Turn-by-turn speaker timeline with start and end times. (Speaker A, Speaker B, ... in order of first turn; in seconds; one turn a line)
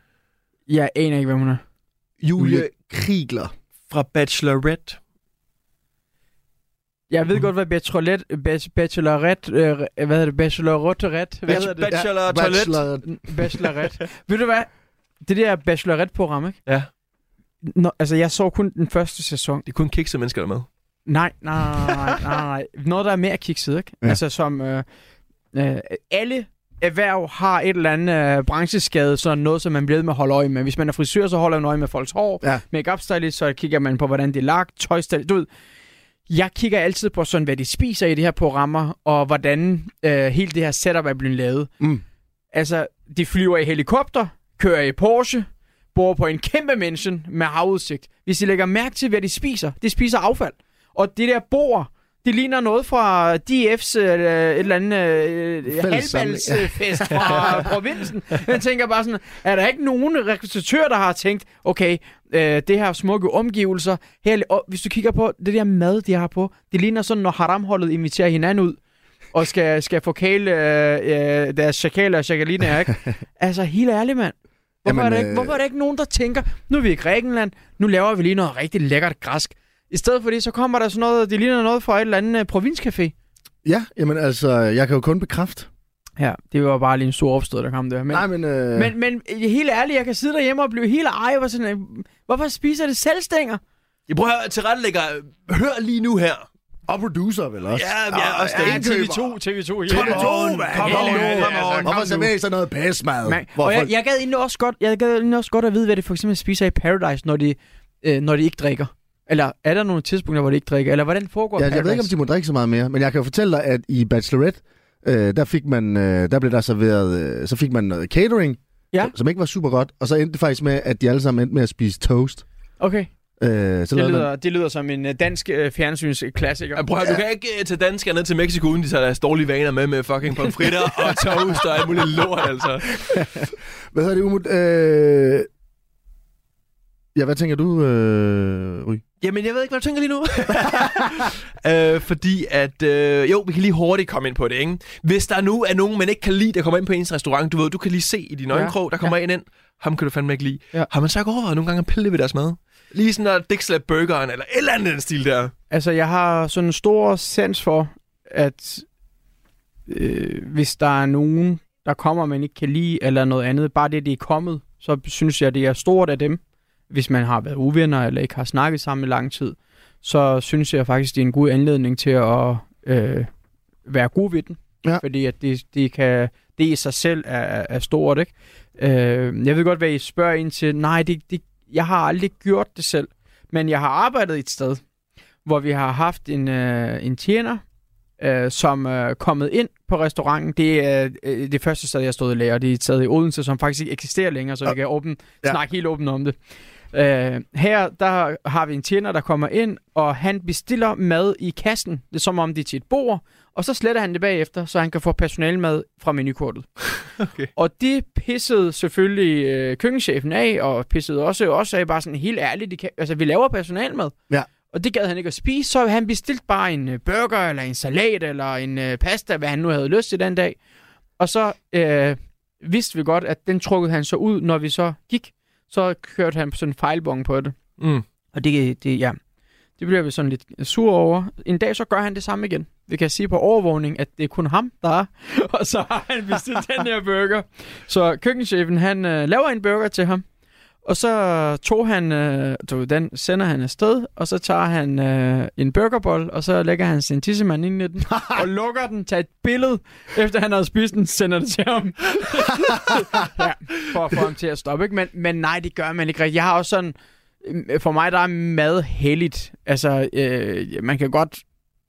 Speaker A: 0.7-1.6
Speaker B: 2.2-2.7
Speaker C: 2.4-3.5
Speaker B: 3.9-5.0
Speaker A: 7.1-11.9
Speaker B: 11.5-12.8
Speaker C: 11.5-13.1
Speaker A: 13.0-14.7
Speaker A: 15.2-16.6
Speaker A: 17.6-19.6
Speaker B: 19.6-20.7
Speaker A: 21.1-24.8
Speaker A: 25.5-35.5
Speaker A: 36.3-41.7
Speaker A: 42.5-68.8
Speaker C: 55.7-57.8
Speaker A: 69.3-83.1
Speaker C: 74.8-75.6
Speaker C: 83.6-85.7
Speaker A: 86.2-93.6
Speaker C: 88.1-88.9
Speaker B: 94.1-96.5
Speaker C: 96.9-99.3
Speaker B: 97.7-98.8
Speaker A: 98.5-102.2
Speaker C: 99.9-103.9
Speaker B: 99.9-102.1
Speaker A: 103.2-112.1
Speaker C: 111.6-122.4
Speaker A: 122.8-123.1
Speaker C: 123.4-124.3
Speaker A: 123.9-126.8
Speaker B: 126.8-133.1
Speaker C: 133.0-135.5
Speaker C: 137.1-139.0
Speaker B: 139.2-155.5
Speaker C: 140.7-141.2
Speaker A: 148.5-149.1
Speaker A: 155.7-158.8
Speaker A: 159.9-173.3
Speaker A: 173.8-184.8
Speaker A: 185.4-187.6
Speaker A: 188.2-196.3
Speaker A: 196.9-206.7
Speaker B: 207.2-207.5
Speaker A: 207.5-214.1
Speaker A: 214.7-220.6
Speaker A: 221.2-227.5
Speaker B: 227.8-228.0
Speaker A: 228.3-229.2
Speaker A: 229.8-240.2
Speaker A: 240.8-261.4
Speaker C: 248.1-248.4